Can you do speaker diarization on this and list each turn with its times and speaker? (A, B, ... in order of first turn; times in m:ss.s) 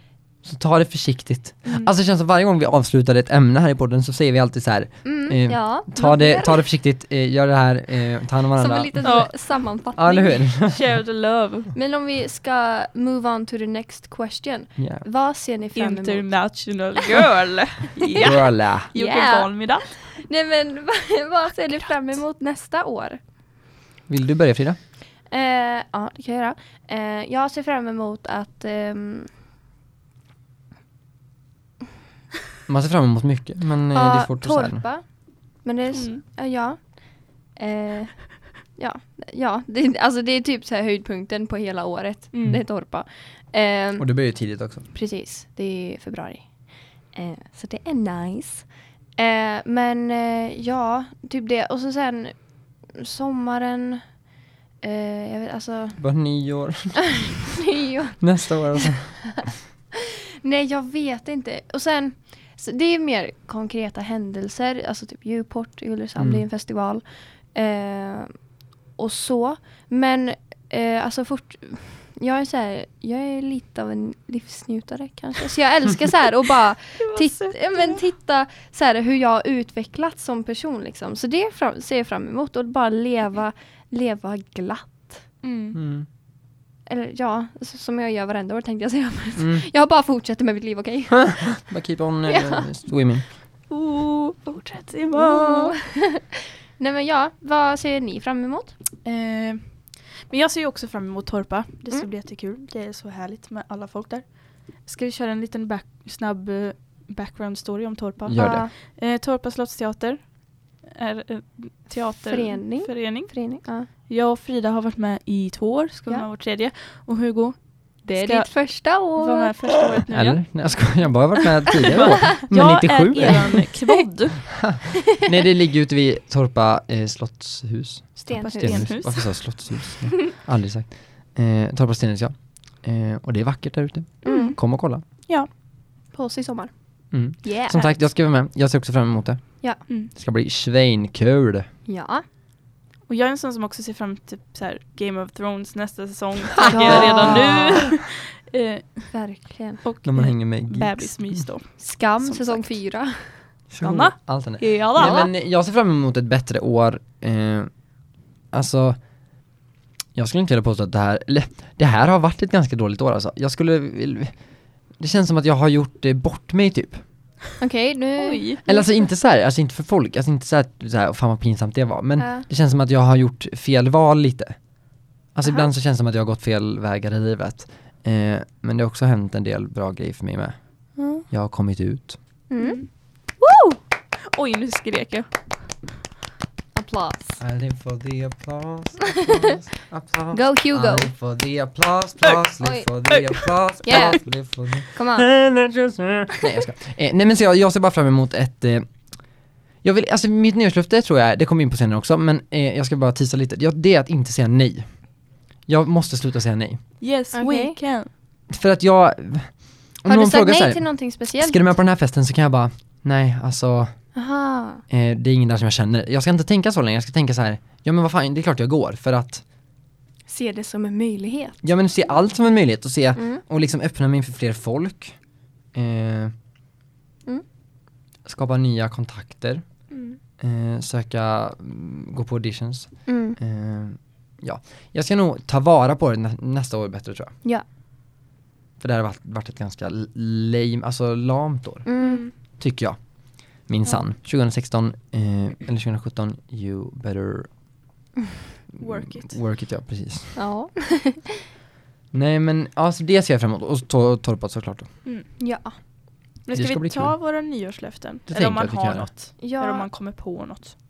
0:00.4-0:10.8 A
0:05.0-0:06.6 B
0:08.6-0:10.4 B
0:09.0-0:09.3 C
0:10.6-0:11.7 C
0:11.7-0:16.5 B
0:14.8-0:15.0 A
0:15.8-0:20.0 C
0:18.2-0:18.9 A
0:18.9-0:23.2 B
0:24.1-0:24.8 A
0:25.3-0:29.3 B
0:32.7-0:34.8 A
0:33.9-0:44.1 B
0:35.9-0:36.2 C
0:42.3-0:42.6 C
0:44.0-0:44.9 A
0:44.9-0:54.2 B
0:54.8-0:56.0 B
0:56.0-0:57.1 A
0:57.6-0:59.1 B
0:58.2-0:59.5 A
1:00.4-1:08.3 B
1:06.2-1:06.4 A
1:09.0-1:25.3 B
1:17.0-1:18.0 C
1:25.4-1:25.8 C
1:25.7-1:26.1 A
1:26.9-1:31.7 B
1:29.4-1:29.6 A
1:31.4-1:33.3 A
1:32.2-1:32.7 B
1:33.7-1:35.8 C
1:35.1-1:38.7 B
1:39.0-2:00.6 C
1:48.2-1:48.6 A
1:48.4-1:48.7 B
1:52.2-1:53.9 B
1:58.0-1:59.5 B
2:00.1-2:03.6 A
2:01.8-2:04.5 C
2:04.6-2:15.0 A
2:08.2-2:09.3 B
2:08.3-2:09.6 C
2:14.2-2:14.6 B
2:14.2-2:14.6 C
2:16.1-2:17.9 B
2:17.1-2:21.7 A
2:21.9-2:22.2 B
2:23.1-2:29.2 C
2:26.6-2:27.9 B
2:26.6-2:27.8 A
2:29.1-2:29.8 B
2:29.8-2:32.8 C
2:30.0-2:31.5 A
2:31.8-2:33.4 B
2:33.7-2:37.8 A
2:33.8-2:35.2 C
2:35.0-2:35.3 B
2:38.5-2:39.0 A
2:40.1-2:47.0 A
2:47.6-2:48.9 B
2:48.2-2:48.6 C
2:48.6-2:54.6 A
2:52.2-2:52.5 B
2:55.3-3:02.2 A
3:01.0-3:01.3 C
3:02.5-3:02.8 B
3:02.6-3:05.3 C
3:06.7-3:07.4 B
3:07.4-3:19.1 A
3:10.3-3:11.1 B
3:12.6-3:12.9 B
3:13.1-3:14.1 C
3:13.8-3:14.2 B
3:14.9-3:15.3 B
3:19.8-3:27.0 A
3:27.0-3:28.1 C
3:27.3-3:27.8 B
3:28.5-3:34.0 A
3:30.0-3:31.6 B
3:34.1-3:34.8 B
3:34.9-3:39.4 A
3:40.3-3:41.6 B
3:41.6-3:45.2 A
3:43.2-3:43.4 B
3:45.7-3:46.3 A
3:48.2-3:49.9 A
3:49.9-3:50.2 C
3:50.4-3:57.4 A
3:53.0-3:53.4 B
3:58.8-4:07.5 A
4:01.9-4:02.2 B
4:02.0-4:02.3 C
4:08.7-4:10.4 A
4:08.8-4:09.4 C
4:10.4-4:11.3 B
4:12.1-4:14.9 A
4:15.4-4:15.8 B
4:16.4-4:20.7 C
4:16.5-4:17.2 A
4:18.3-4:19.1 A
4:19.4-4:19.9 B